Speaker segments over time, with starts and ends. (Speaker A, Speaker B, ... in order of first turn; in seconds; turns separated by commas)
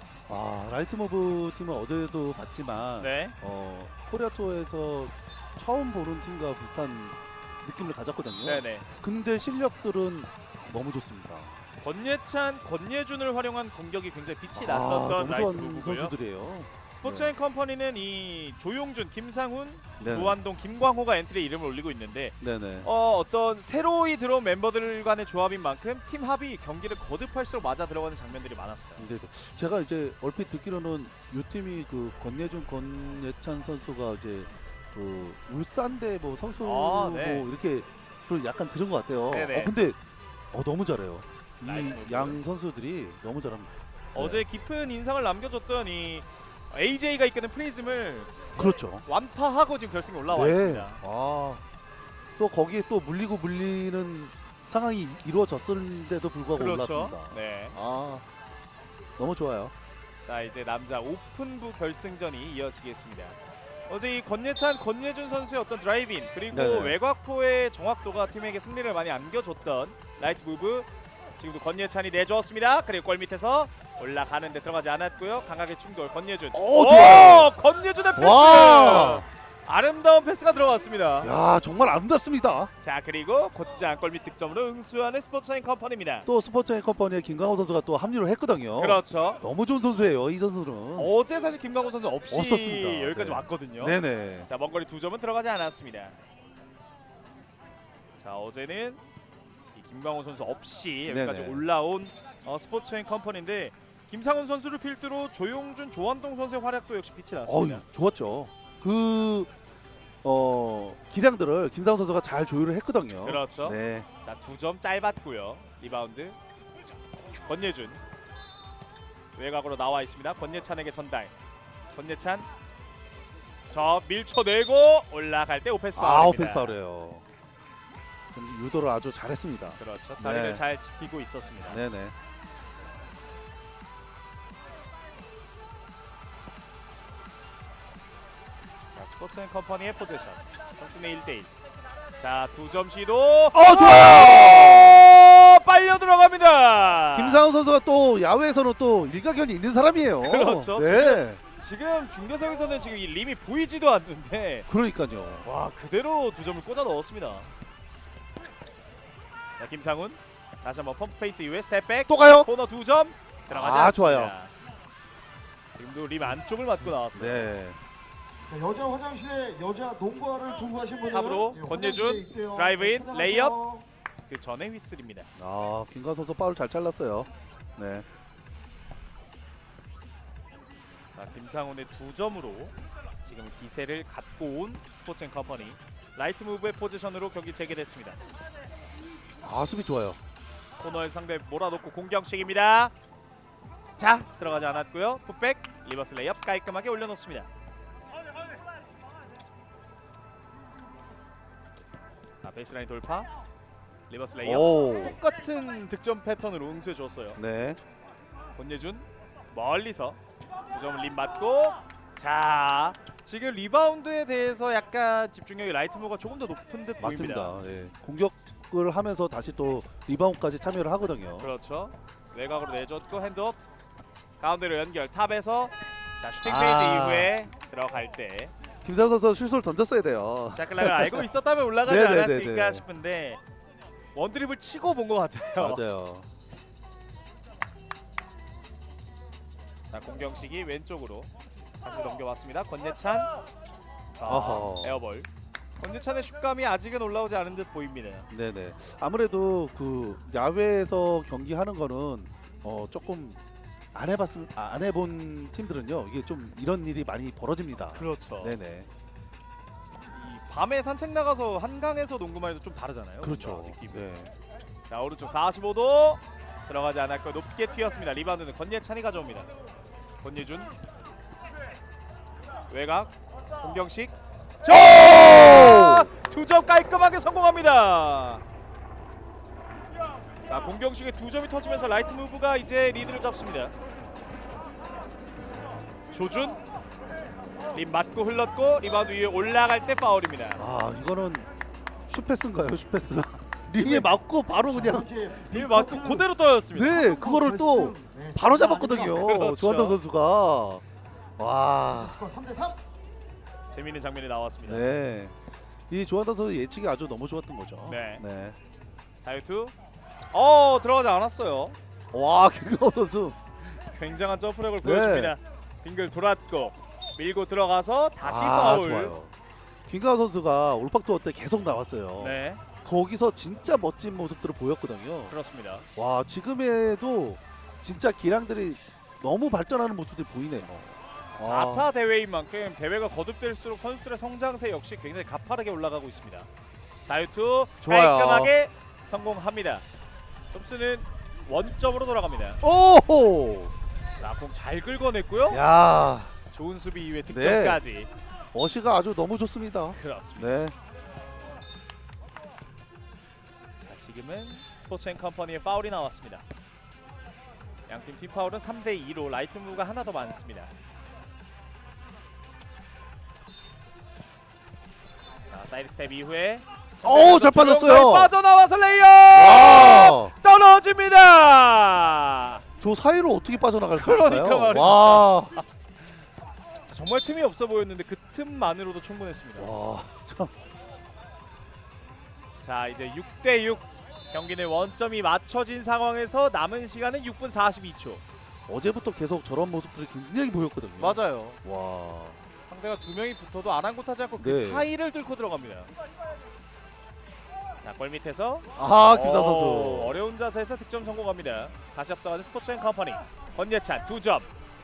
Speaker A: 0.3-11.6, Speaker B: 3.0-3.3, Speaker B: 8.4-8.9, Speaker B: 11.8-16.1, Speaker A: 14.5-17.3, Speaker B: 16.9-29.1, Speaker A: 20.0-20.4, Speaker A: 22.4-22.9, Speaker A: 29.0-40.0, Speaker B: 36.6-37.5, Speaker B: 39.3-39.7, Speaker A: 40.5-44.4, Speaker B: 41.6-42.4, Speaker B: 44.1-51.0, Speaker A: 48.6-49.0, Speaker A: 50.3-51.6, Speaker A: 52.4-58.2, Speaker B: 56.5-57.8, Speaker A: 59.2-59.7, Speaker B: 60.2-63.4, Speaker B: 63.9-81.3, Speaker A: 66.5-67.0, Speaker A: 76.5-77.5, Speaker A: 78.2-79.3, Speaker A: 81.2-82.7, Speaker B: 82.8-86.3, Speaker A: 86.3-91.1, Speaker B: 88.8-89.4, Speaker B: 91.0-96.2, Speaker A: 92.3-94.5, Speaker B: 98.2-99.0, Speaker B: 99.8-107.8, Speaker A: 101.1-101.6, Speaker A: 107.5-109.5, Speaker A: 110.2-114.1, Speaker B: 113.2-116.4, Speaker B: 117.4-118.0, Speaker B: 119.3-121.3, Speaker B: 121.9-122.5, Speaker B: 123.7-126.8, Speaker A: 126.0-127.2, Speaker A: 128.3-130.6, Speaker B: 129.8-131.8, Speaker A: 131.7-132.2, Speaker B: 138.9-141.5, Speaker B: 142.2-147.4, Speaker A: 143.5-145.1, Speaker A: 147.1-151.4, Speaker B: 150.2-154.7, Speaker A: 154.7-155.5, Speaker B: 155.4-157.5, Speaker B: 159.6-164.5, Speaker A: 162.1-162.5, Speaker A: 163.5-164.3, Speaker B: 165.7-167.5, Speaker A: 167.1-167.8, Speaker C: 168.5-173.8, Speaker B: 171.1-173.6, Speaker B: 174.3-175.3, Speaker A: 175.4-178.1, Speaker B: 181.2-188.2, Speaker A: 189.4-190.2, Speaker B: 190.8-192.9, Speaker B: 194.0-197.5, Speaker B: 202.4-203.3, Speaker B: 204.1-207.4, Speaker A: 204.4-205.2, Speaker A: 207.4-207.8, Speaker B: 208.6-210.2, Speaker B: 210.7-217.6, Speaker A: 217.0-221.5, Speaker B: 221.4-223.6, Speaker B: 224.4-228.5, Speaker A: 226.4-227.4, Speaker A: 228.8-231.2, Speaker B: 230.5-233.4, Speaker A: 231.8-232.8, Speaker B: 234.1-235.8, Speaker A: 235.6-236.2, Speaker B: 239.9-243.3, Speaker B: 244.2-248.3, Speaker A: 244.2-245.0, Speaker A: 248.3-253.4, Speaker A: 253.9-258.9, Speaker B: 257.9-258.6, Speaker B: 260.1-264.0, Speaker A: 263.2-264.3, Speaker B: 264.9-269.5, Speaker B: 270.2-270.7, Speaker B: 272.7-278.4, Speaker A: 274.7-276.1, Speaker B: 280.5-283.7, Speaker B: 286.1-286.6, Speaker B: 287.7-290.6, Speaker A: 290.6-291.5, Speaker A: 292.1-295.1, Speaker B: 293.8-294.1, Speaker C: 294.8-296.3, Speaker B: 295.4-297.0, Speaker A: 296.7-300.8, Speaker C: 296.9-299.2, Speaker B: 299.2-300.0, Speaker A: 301.4-302.2, Speaker C: 302.0-302.8, Speaker B: 303.7-304.8, Speaker A: 304.6-305.4, Speaker A: 305.9-308.6, Speaker B: 307.9-308.2, Speaker B: 309.2-309.8, Speaker B: 310.3-311.8, Speaker A: 312.1-313.4, Speaker B: 313.8-319.1, Speaker A: 314.8-315.4, Speaker A: 318.2-319.3, Speaker A: 319.9-325.4, Speaker B: 322.2-322.6, Speaker B: 325.3-325.9, Speaker A: 326.0-331.9, Speaker B: 331.4-336.5, Speaker B: 337.0-339.8, Speaker A: 337.8-338.5, Speaker B: 340.5-342.6, Speaker A: 342.6-343.7, Speaker B: 344.2-345.6, Speaker A: 345.5-346.3, Speaker B: 346.5-348.1, Speaker A: 347.3-347.8, Speaker A: 348.5-350.7, Speaker B: 349.9-350.5, Speaker B: 353.8-356.4, Speaker B: 357.9-360.7, Speaker B: 365.5-372.6, Speaker A: 367.0-368.3, Speaker A: 369.3-370.4, Speaker A: 372.8-375.6, Speaker B: 373.9-375.6, Speaker B: 376.9-379.7, Speaker A: 379.6-380.5, Speaker B: 382.6-388.2, Speaker A: 388.7-392.5, Speaker B: 391.0-391.6, Speaker B: 392.7-395.9, Speaker A: 394.4-394.9, Speaker B: 397.8-404.5, Speaker A: 398.8-400.2